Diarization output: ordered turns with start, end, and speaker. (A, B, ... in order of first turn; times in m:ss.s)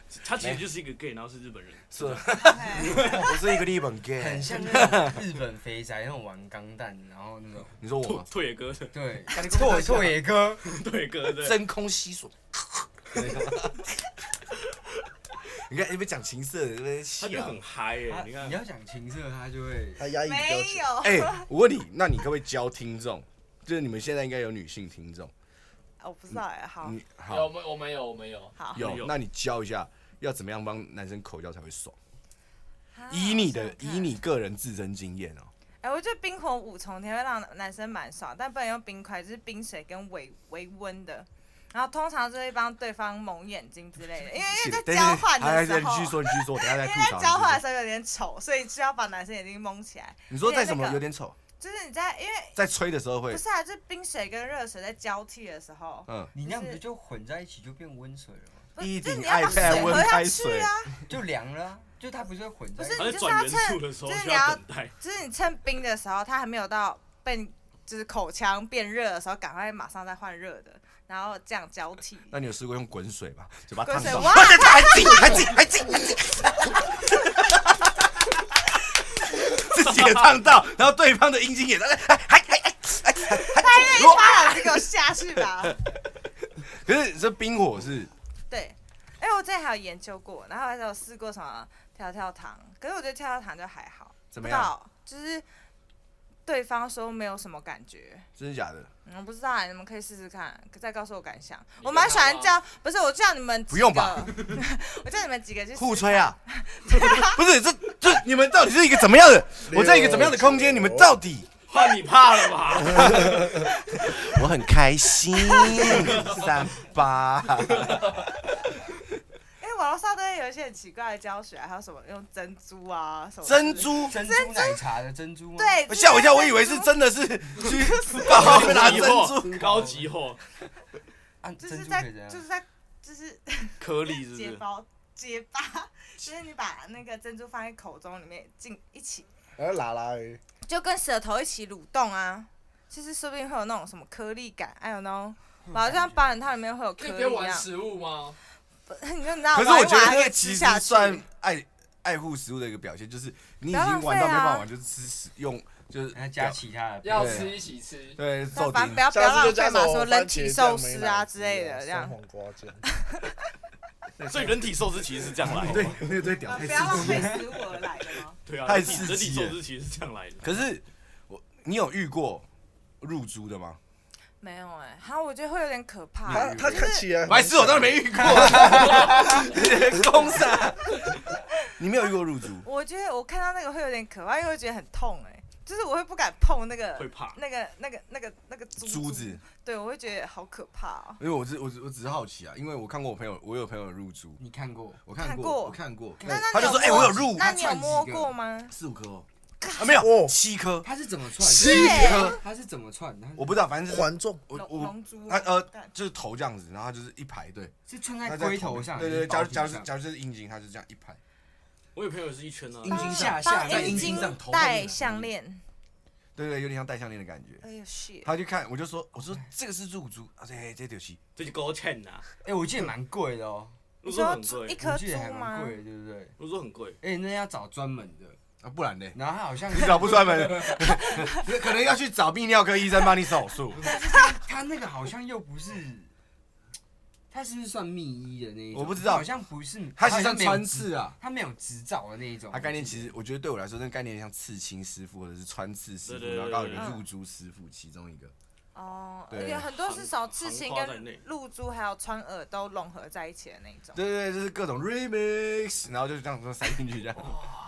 0:00.1-0:02.3 A
0:00.4-0:00.6 B
0:01.9-0:05.2 B
0:02.4-0:03.2 C
0:02.8-0:03.2 A
0:04.2-0:07.8 D
0:07.8-0:08.3 B
0:08.0-0:08.9 A
0:08.9-0:10.6 D
0:09.3-0:10.2 B
0:10.6-0:11.6 A
0:11.3-0:13.9 B
0:15.5-0:17.6 B
0:17.2-0:18.6 A
0:18.1-0:20.1 D
0:20.0-0:21.0 E
0:20.2-0:21.5 C
0:21.0-0:25.3 B
0:26.0-0:27.0 C
0:26.8-0:27.5 B
0:27.3-0:28.6 F
0:28.6-0:28.9 C
0:28.7-0:32.0 B
0:28.8-0:29.1 A
0:32.9-0:34.2 C
0:33.1-0:35.5 B
0:35.8-0:51.0 C
0:44.4-0:47.6 B
0:50.3-0:51.4 B
0:51.6-0:52.6 C
0:52.6-0:53.4 B
0:53.3-0:56.8 C
0:56.3-0:58.7 D
0:58.8-1:00.9 C
0:58.8-1:00.7 B
0:59.4-1:00.0 D
1:01.0-1:03.2 D
1:02.8-1:12.3 C
1:03.0-1:04.9 A
1:12.3-1:25.8 B
1:13.8-1:15.5 C
1:23.4-1:25.8 C
1:26.6-1:28.1 B
1:28.5-1:35.4 C
1:34.3-1:34.7 B
1:36.4-1:38.3 C
1:38.4-1:38.9 B
1:39.0-1:47.4 C
1:41.8-1:42.6 F
1:43.7-1:44.4 B
1:45.7-1:46.4 B
1:46.9-1:51.5 B
1:49.7-1:51.1 E
1:51.7-1:54.3 A
1:52.9-1:58.3 B
1:55.4-1:55.8 C
1:55.7-1:56.5 A
1:59.6-2:04.8 C
2:03.4-2:04.2 B
2:04.0-2:05.8 D
2:05.6-2:06.9 C
2:05.9-2:09.9 B
2:07.7-2:08.3 C
2:08.2-2:10.4 A
2:09.7-2:10.0 D
2:11.4-2:12.4 D
2:11.6-2:19.3 C
2:13.8-2:14.6 A
2:19.6-2:20.4 E
2:20.6-2:27.7 C
2:25.7-2:26.2 D
2:27.0-2:28.4 F
2:28.9-2:31.2 C
2:29.5-2:36.6 B
2:33.7-2:34.7 C
2:36.1-2:37.6 D
2:37.0-2:38.2 F
2:37.1-2:37.6 B
2:38.2-2:39.1 B
2:38.5-2:42.2 C
2:39.1-2:42.8 E
2:42.8-2:43.3 C
2:44.2-2:44.7 B
2:44.3-2:46.0 A
2:45.4-2:47.6 B
2:46.4-2:48.4 C
2:47.1-2:47.4 D
2:48.4-2:50.5 A
2:48.6-2:49.6 B
2:50.4-2:52.4 B
2:53.0-2:53.8 B
2:54.4-2:57.2 C
2:56.3-2:59.5 E
2:56.3-3:01.2 B
2:58.2-2:59.4 D
3:01.8-3:02.6 B
3:02.6-3:11.2 C
3:07.0-3:07.4 A
3:08.8-3:09.4 B
3:11.2-3:14.4 B
3:14.4-3:15.0 D
3:15.0-3:17.5 B
3:15.2-3:18.7 C
3:16.2-3:18.3 D
3:18.7-3:20.9 B
3:19.6-3:19.9 C
3:19.9-3:20.3 E
3:20.8-3:23.6 D
3:21.5-3:22.4 B
3:21.5-3:22.3 C
3:23.4-3:27.7 B
3:23.8-3:24.5 E
3:24.5-3:25.9 C
3:27.9-3:29.9 D
3:28.2-3:31.2 B
3:31.9-3:33.2 A
3:32.8-3:35.3 B
3:32.9-3:34.4 D
3:32.9-3:35.6 C
3:36.4-3:37.6 B
3:37.6-3:38.3 C
3:38.2-3:41.2 B
3:41.4-3:42.3 A
3:42.4-3:43.8 D
3:44.0-3:44.8 A
3:44.0-3:45.8 C
3:44.8-3:46.3 D
3:46.4-3:47.0 A
3:47.0-3:48.4 D
3:48.6-3:49.2 B
3:49.1-3:50.8 D
3:49.7-3:53.8 B
3:53.8-3:56.1 D
3:57.3-4:03.1 D
3:58.7-3:59.3 B
4:00.0-4:01.2 B
4:02.5-4:08.3 B
4:06.0-4:06.9 A
4:06.8-4:07.0 C
4:08.7-4:14.0 C
4:09.3-4:09.7 B
4:09.7-4:11.2 A
4:13.9-4:17.4 B